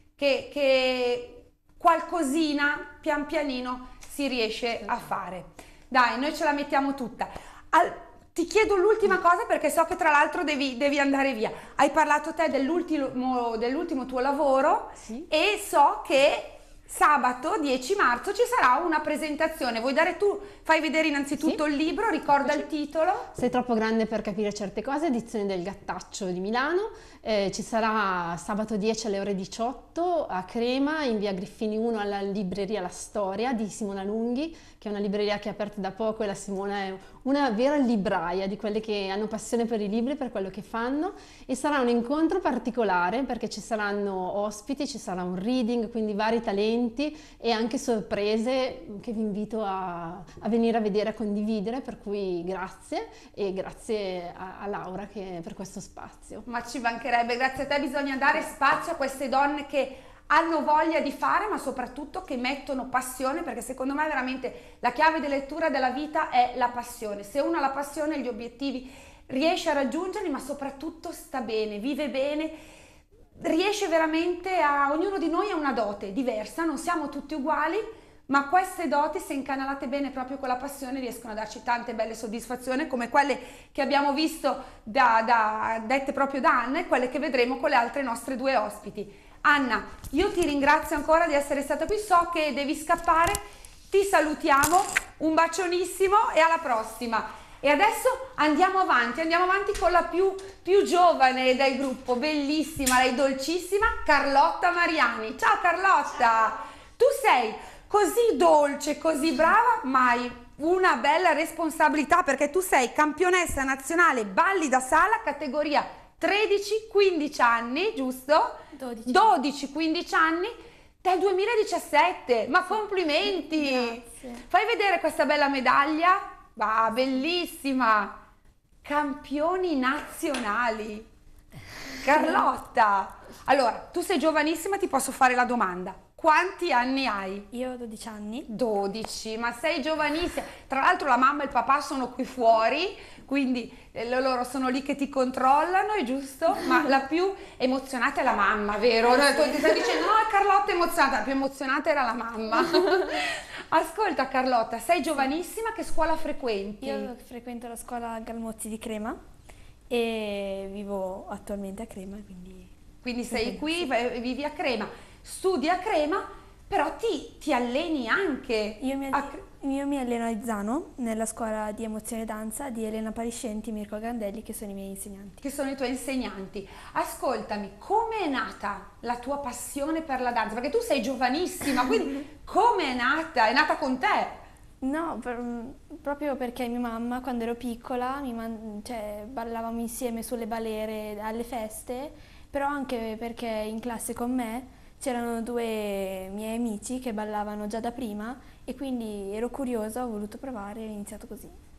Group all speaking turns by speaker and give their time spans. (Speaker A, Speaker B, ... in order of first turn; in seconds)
Speaker A: 0.2-23.3, 56.5-72.6, 73.4-128.2, 128.8-131.1, 132.0-137.5, 138.5-157.1, 163.0-169.4, 175.4-184.4
Speaker B: 15.0-15.3, 23.3-56.5
Speaker C: 118.8-119.3, 123.3-124.4, 137.5-138.5, 149.1-150.0, 152.6-153.2, 156.8-159.2, 159.9-162.7, 163.3-163.8, 168.8-175.4, 184.8-201.6